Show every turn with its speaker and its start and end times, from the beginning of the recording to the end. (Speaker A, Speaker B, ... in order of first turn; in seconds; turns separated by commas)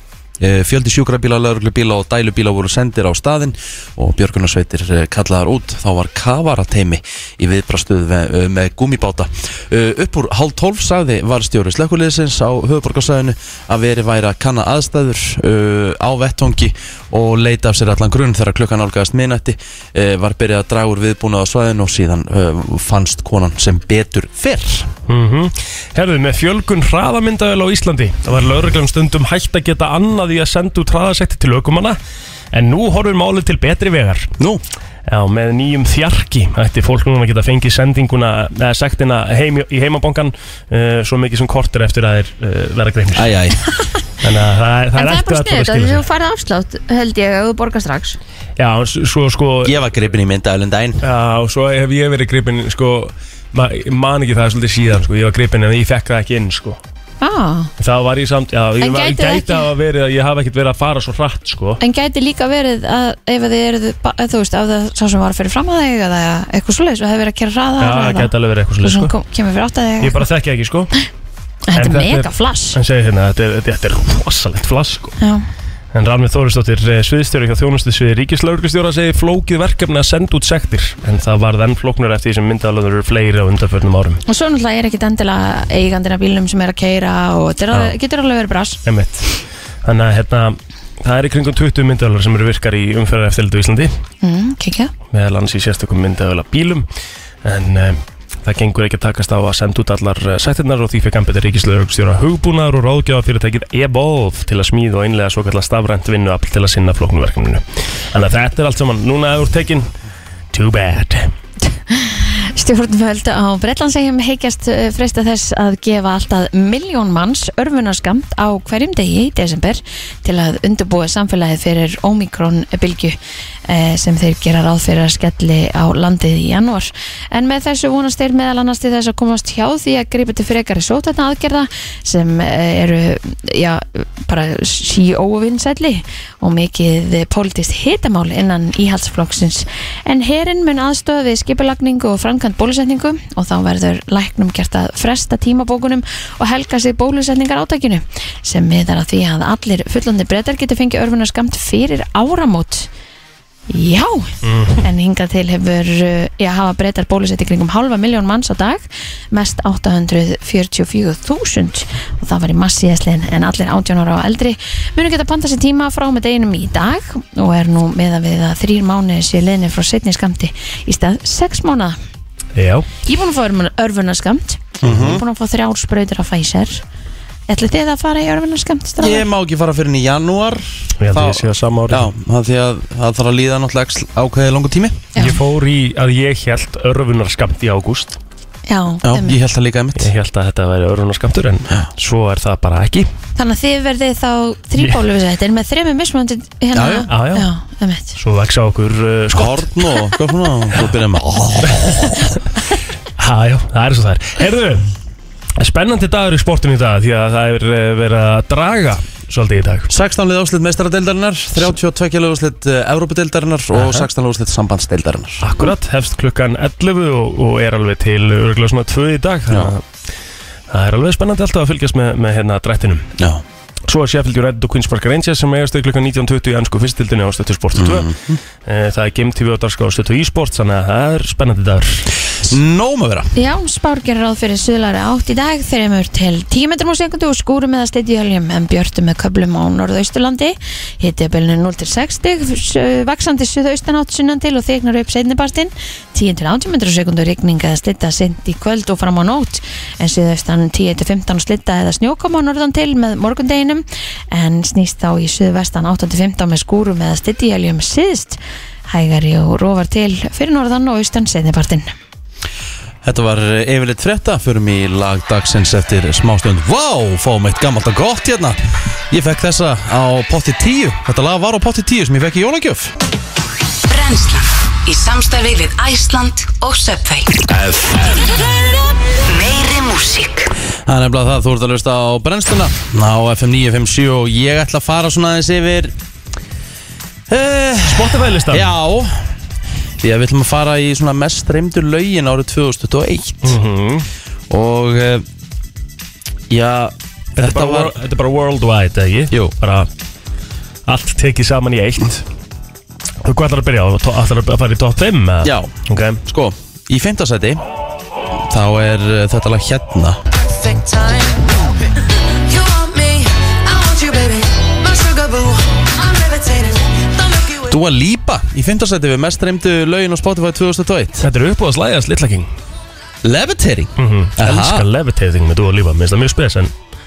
Speaker A: 0.4-24.9, Speaker B: 25.1-32.0, Speaker B: 32.5-34.3, Speaker B: 35.1-43.4, Speaker A: 43.1-43.6, Speaker B: 44.2-46.0, Speaker C: 45.0-48.2, Speaker B: 48.6-49.8, Speaker A: 49.6-51.0, Speaker B: 51.0-56.8, Speaker C: 57.2-57.7, Speaker B: 57.8-61.8, Speaker C: 58.8-59.7, Speaker C: 61.8-68.3, Speaker B: 67.8-69.2, Speaker C: 68.8-70.2, Speaker B: 70.0-70.9, Speaker C: 71.7-72.8, Speaker B: 71.8-75.2, Speaker C: 75.2-75.5, Speaker B: 75.9-84.2, Speaker C: 84.3-88.8, Speaker B: 88.8-93.9, Speaker C: 94.2-94.9, Speaker B: 95.1-96.9, Speaker B: 97.4-109.9, Speaker B: 110.5-111.3, Speaker C: 111.7-152.9, Speaker C: 153.7-172.0, Speaker B: 154.4-154.8, Speaker B: 172.6-172.9, Speaker C: 173.0-176.8, Speaker A: 174.8-175.2, Speaker C: 177.5-179.3, Speaker A: 179.0-185.1, Speaker B: 181.0-182.1, Speaker B: 185.2-188.2, Speaker C: 188.7-189.4, Speaker A: 189.0-190.1, Speaker B: 190.0-193.1, Speaker C: 193.4-198.2, Speaker A: 196.7-197.1, Speaker B: 197.1-197.5, Speaker B: 198.2-199.7, Speaker A: 199.3-202.1, Speaker B: 201.7-202.4, Speaker B: 203.2-204.9, Speaker B: 205.6-209.9, Speaker A: 209.9-215.4, Speaker B: 213.7-214.1, Speaker B: 215.4-219.8, Speaker B: 220.7-223.1, Speaker A: 223.2-223.4, Speaker B: 223.9-228.1, Speaker A: 227.8-228.4, Speaker B: 228.7-232.1, Speaker A: 232.4-233.3, Speaker C: 233.3-261.9, Speaker A: 263.0-268.6, Speaker A: 269.1-272.9, Speaker D: 273.9-277.6, Speaker A: 277.5-278.1, Speaker D: 279.3-280.5, Speaker A: 280.9-285.9, Speaker A: 287.3-289.3, Speaker B: 287.9-288.7, Speaker A: 290.0-293.6, Speaker B: 293.4-294.1, Speaker A: 294.5-295.2, Speaker A: 296.5-298.0, Speaker B: 297.4-299.9, Speaker B: 300.9-302.3, Speaker B: 303.2-306.2, Speaker A: 305.4-305.7, Speaker A: 306.3-307.6, Speaker A: 308.3-310.2, Speaker E: 312.5-313.2, Speaker E: 313.9-315.5, Speaker E: 316.0-317.1, Speaker A: 317.6-321.3, Speaker B: 321.2-322.5, Speaker A: 323.2-324.9, Speaker B: 324.0-326.7